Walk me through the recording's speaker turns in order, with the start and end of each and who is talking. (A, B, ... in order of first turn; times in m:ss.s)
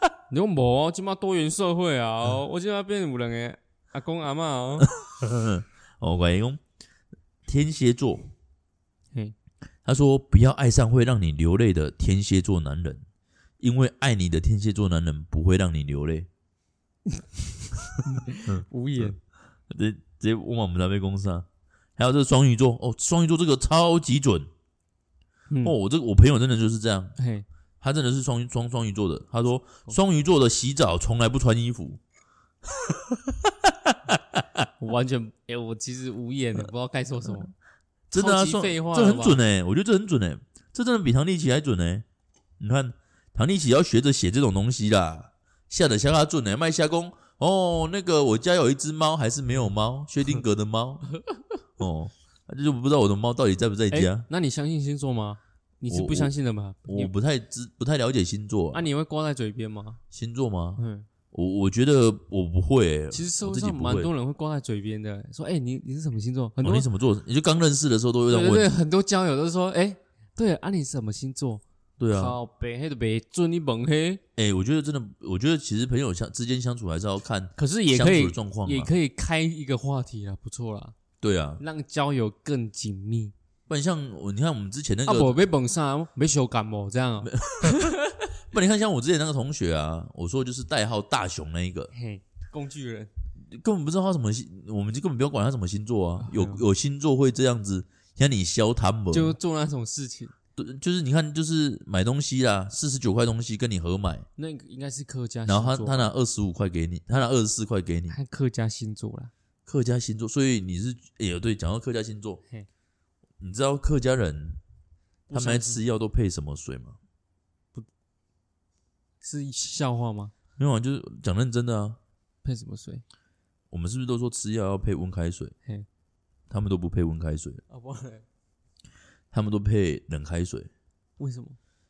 0:00.3-0:04.9 A
0:04.9-0:06.6 B
0:07.5-0:08.3 B
0:09.8-0:13.0 B
0:13.6-0:16.3 B
0:17.1-0:19.2 A
0:18.5-0:19.1 B
0:19.7-0:21.4 B
0:22.0-0:24.5 B
0:25.6-0:27.1 B
0:27.2-0:27.4 A
0:27.8-0:32.0 B
0:32.8-0:34.4 B
0:34.8-0:37.5 A
0:38.1-0:39.4 A
0:38.1-0:42.0 B
0:42.6-0:51.1 B
0:51.8-0:54.2 B
0:53.9-0:57.1 A
0:55.9-0:56.3 B
0:56.8-0:58.9 B
0:58.7-1:00.0 A
1:00.1-1:04.1 B
1:00.8-1:01.1 A
1:03.1-1:06.8 A
1:06.6-1:08.7 B
1:08.3-1:11.6 A
1:12.0-1:12.4 B
1:12.1-1:14.2 A
1:14.4-1:18.9 B
1:17.6-1:20.9 A
1:21.2-1:21.6 B
1:21.6-1:23.3 A
1:23.7-1:25.4 B
1:25.0-1:28.2 A
1:27.2-1:27.9 B
1:28.5-1:31.9 B
1:31.9-1:33.1 A
1:33.5-1:39.4 B
1:36.2-1:36.6 A
1:39.1-1:40.3 A
1:40.6-1:44.2 B
1:44.4-1:46.1 A
1:45.4-1:48.2 B
1:48.1-1:49.3 A
1:49.6-1:52.4 B
1:53.4-1:54.6 B
1:55.3-1:55.8 A
1:55.3-1:57.0 B
1:59.2-2:00.3 A
2:00.6-2:02.0 B
2:02.4-2:03.0 A
2:03.7-2:05.5 B
2:06.5-2:07.6 B
2:07.7-2:08.2 A
2:09.3-2:10.7 B
2:11.2-2:11.6 A